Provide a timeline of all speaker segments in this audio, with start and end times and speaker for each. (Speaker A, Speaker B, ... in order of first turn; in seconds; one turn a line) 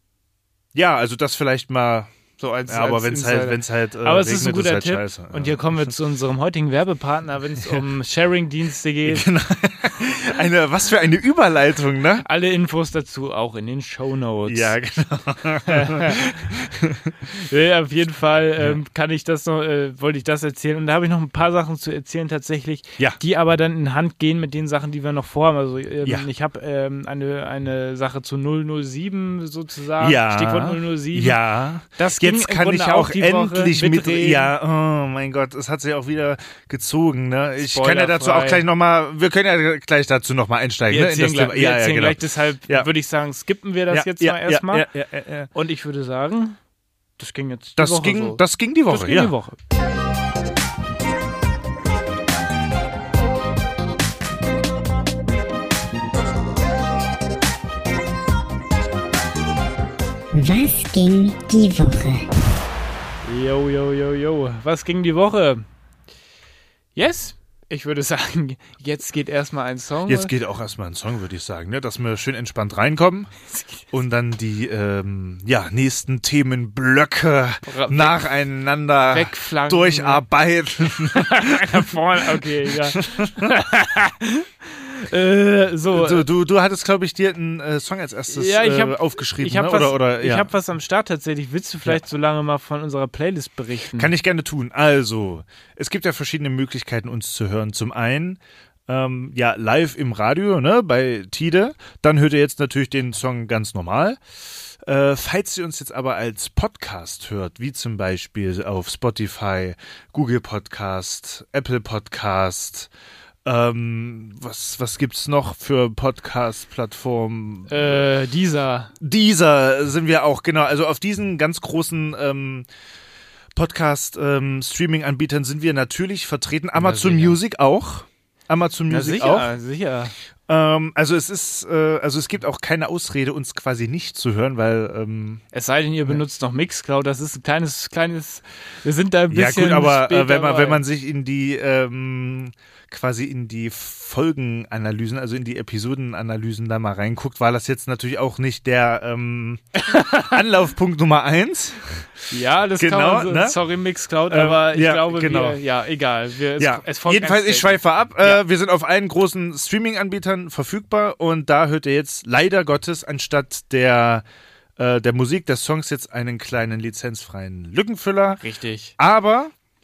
Speaker A: 0.7-2.1
Speaker B: 2.4-9.3
Speaker A: 2.7-5.8
Speaker A: 9.0-12.2
Speaker B: 12.2-14.7
Speaker A: 14.5-17.1
Speaker B: 15.6-16.4
Speaker B: 17.3-31.4
Speaker A: 30.0-42.9
Speaker B: 31.9-34.5
Speaker B: 37.6-38.6
Speaker B: 40.9-44.9
Speaker A: 43.9-45.5
Speaker B: 45.5-46.6
Speaker B: 47.2-49.6
Speaker A: 47.8-49.3
Speaker C: 60.3-62.3
Speaker B: 63.2-65.7
Speaker B: 67.0-70.3
Speaker A: 70.0-73.3
Speaker B: 73.5-73.9
Speaker A: 73.9-83.5
Speaker B: 77.7-78.3
Speaker B: 79.1-80.2
Speaker B: 81.1-86.3
Speaker A: 85.9-90.5
Speaker B: 88.3-94.1
Speaker A: 93.9-112.9
Speaker A: 113.4-118.0
Speaker B: 117.7-118.9
Speaker A: 119.0-122.7
Speaker A: 123.5-129.5
Speaker B: 126.8-127.4
Speaker B: 128.9-130.1
Speaker A: 130.5-135.4
Speaker B: 135.5-140.8
Speaker A: 139.3-152.1
Speaker B: 149.8-150.4
Speaker B: 152.3-158.4
Speaker A: 152.8-153.6
Speaker A: 154.3-155.6
Speaker A: 156.6-164.2
Speaker A: 164.8-168.4
Speaker B: 168.4-168.9
Speaker A: 169.0-169.5